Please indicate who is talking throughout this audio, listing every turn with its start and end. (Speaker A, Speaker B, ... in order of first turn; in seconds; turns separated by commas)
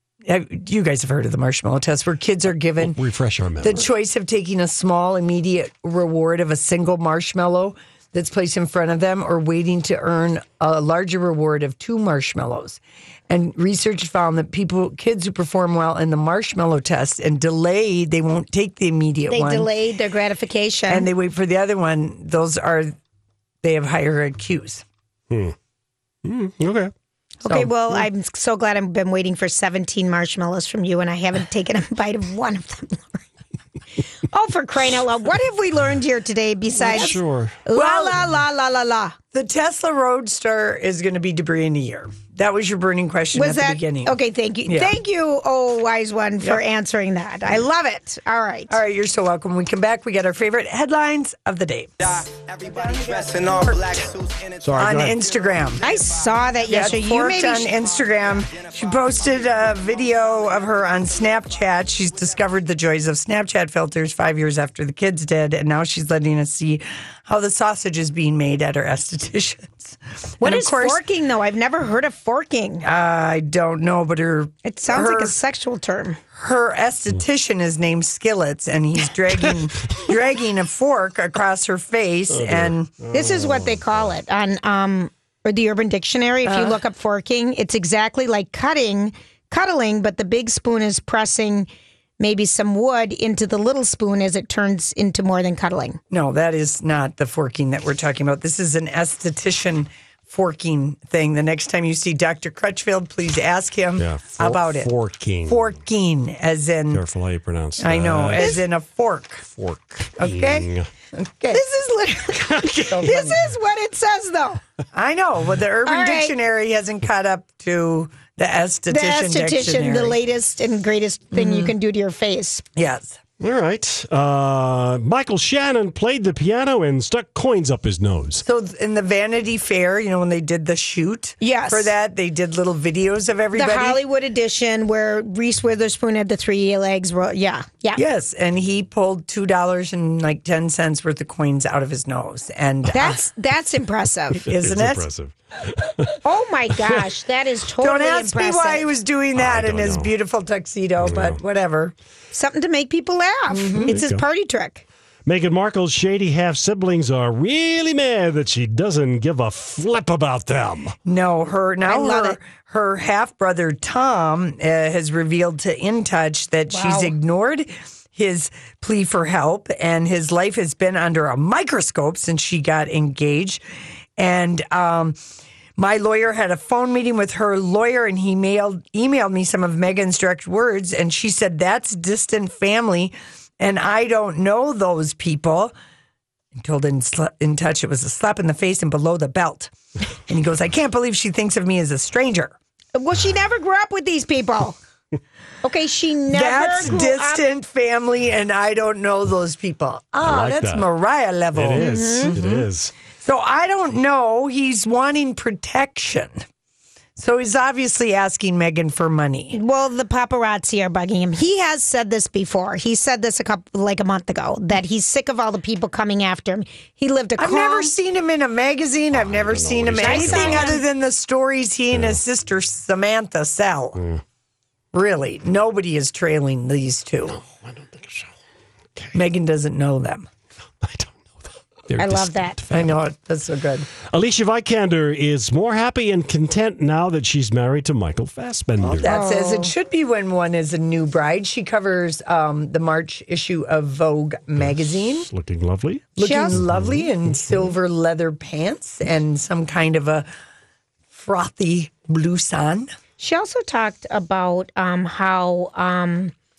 Speaker A: 0.2-3.0, Speaker B: 2.9-3.8, Speaker A: 3.6-19.7, Speaker C: 19.3-21.1, Speaker A: 20.9-22.9, Speaker A: 23.6-24.9, Speaker B: 26.3-26.9, Speaker C: 27.4-33.2, Speaker A: 27.4-28.1, Speaker C: 34.3-39.2, Speaker A: 36.9-37.1, Speaker B: 36.9-37.5, Speaker A: 37.7-38.3, Speaker A: 39.3-45.0, Speaker C: 43.3-48.8, Speaker A: 48.7-54.2, Speaker B: 54.7-55.1, Speaker A: 54.8-55.9, Speaker C: 55.8-57.7, Speaker A: 56.7-71.0, Speaker C: 70.4-72.8, Speaker A: 72.8-75.4, Speaker C: 74.7-76.2, Speaker A: 76.3-82.9, Speaker B: 82.3-84.1, Speaker C: 83.1-91.7, Speaker A: 86.5-86.8, Speaker C: 92.2-96.0, Speaker A: 96.1-104.9, Speaker B: 104.0-105.7, Speaker A: 105.5-107.0, Speaker B: 106.9-108.6, Speaker A: 107.8-109.5, Speaker B: 109.6-110.9, Speaker A: 110.2-111.6, Speaker C: 111.5-114.6, Speaker A: 112.8-113.4, Speaker A: 114.9-120.2, Speaker C: 115.8-116.3, Speaker C: 118.9-122.7, Speaker A: 121.3-121.7, Speaker A: 122.8-123.2, Speaker B: 123.4-128.4, Speaker A: 128.4-134.0, Speaker C: 131.4-131.9, Speaker C: 133.5-138.0, Speaker A: 138.0-143.3, Speaker C: 142.9-144.4, Speaker B: 144.4-146.2, Speaker A: 144.5-145.1, Speaker C: 146.2-148.9, Speaker A: 147.8-151.9, Speaker B: 149.4-150.1, Speaker B: 151.0-151.4, Speaker C: 152.3-154.8, Speaker A: 153.5-153.9, Speaker B: 153.9-154.2, Speaker B: 155.3-160.9, Speaker A: 161.1-173.6, Speaker C: 161.9-162.4, Speaker C: 166.7-167.2, Speaker A: 174.2-175.2, Speaker A: 175.8-185.7, Speaker A: 186.6-189.7, Speaker A: 190.3-192.6, Speaker C: 192.9-194.8, Speaker C: 195.6-197.4, Speaker A: 196.3-202.7, Speaker B: 200.2-200.9, Speaker B: 201.5-202.9, Speaker C: 201.8-202.3, Speaker A: 203.2-206.4, Speaker A: 207.2-209.6, Speaker C: 209.5-217.9, Speaker A: 217.4-224.0, Speaker B: 219.1-220.7, Speaker C: 220.0-220.8, Speaker A: 224.9-227.4, Speaker B: 227.4-228.3, Speaker A: 229.1-230.3, Speaker B: 230.8-231.2, Speaker B: 231.9-232.9, Speaker C: 232.0-232.6, Speaker A: 232.7-233.9, Speaker B: 234.1-239.1, Speaker A: 238.8-245.3, Speaker C: 239.1-239.7, Speaker B: 244.6-247.7, Speaker A: 246.2-250.3, Speaker C: 246.2-246.6, Speaker A: 251.1-252.9, Speaker C: 253.2-256.4